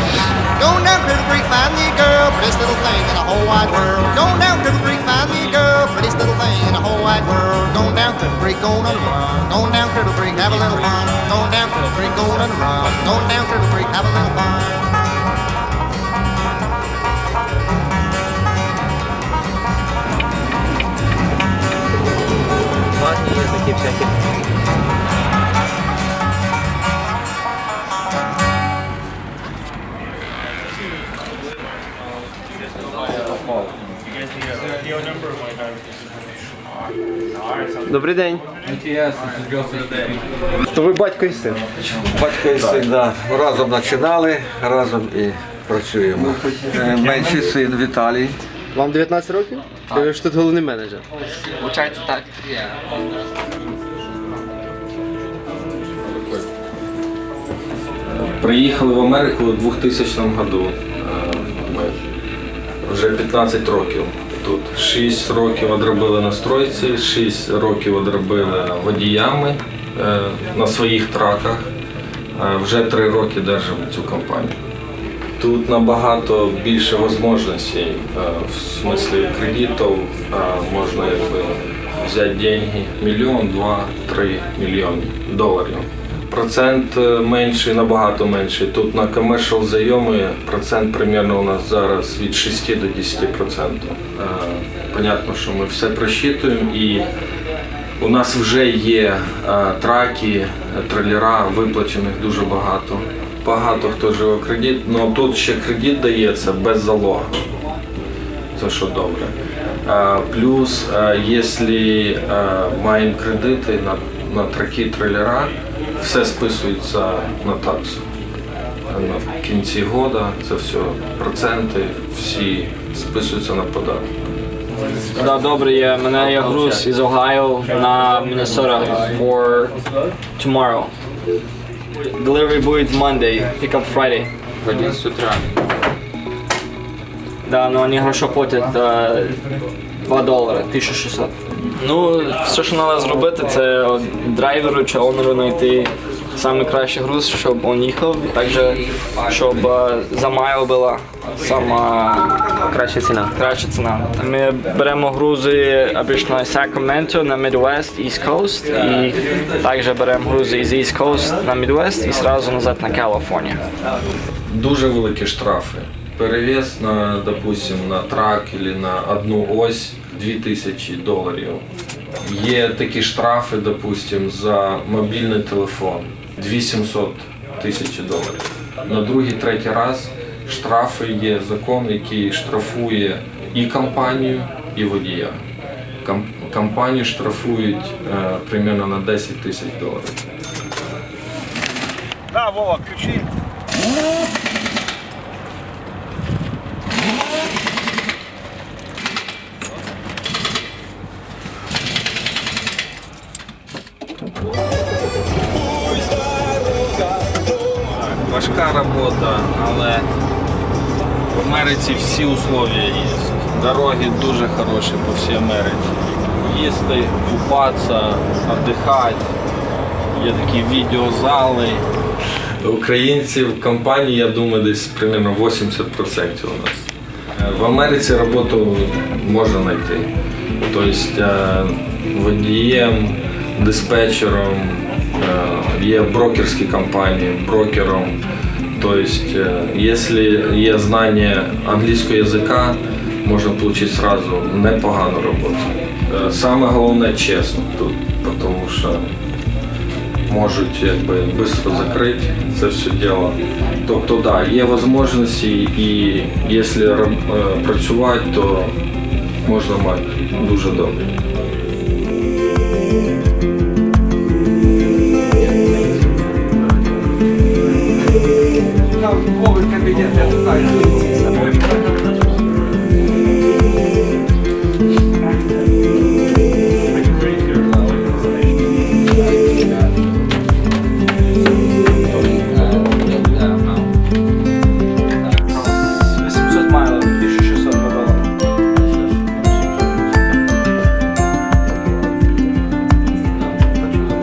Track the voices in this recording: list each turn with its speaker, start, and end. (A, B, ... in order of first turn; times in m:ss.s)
0:00.6-0:14.9 A
0:23.0-0:24.1 B
0:37.9-0:38.5 C
0:38.6-0:40.1 B
0:40.7-0:41.6 C
0:42.0-0:48.4 D
0:48.7-0:51.0 C
0:51.5-0:52.8 B
0:56.0-0:56.5 E
0:58.1-1:02.0 E
1:02.8-1:11.7 E
1:12.4-1:14.6 E
1:15.4-1:37.1 E
1:38.0-1:47.4 E
1:48.6-1:58.0 E
1:58.9-2:04.1 E
2:05.1-2:09.8 F
2:10.4-2:10.9 F
2:11.9-2:14.3 F
2:14.6-2:15.7 B
2:17.4-2:19.4 F
2:20.0-2:32.4 F
2:28.7-2:29.3 B
2:32.7-2:33.3 C
2:33.3-2:43.6 F
2:44.5-2:51.6 E
2:52.2-3:05.4 E
3:06.0-3:10.2 E
3:12.5-3:12.9 A
3:27.8-3:30.1 E
3:31.3-3:39.3 E
3:40.1-3:41.9 E
3:42.6-3:50.1 E
3:50.6-3:58.2 E
3:58.8-4:09.1 E
4:10.3-4:18.8 E
4:19.4-4:21.1 E
4:39.2-4:40.1 B
4:42.3-4:43.9 B
4:45.6-4:48.3 F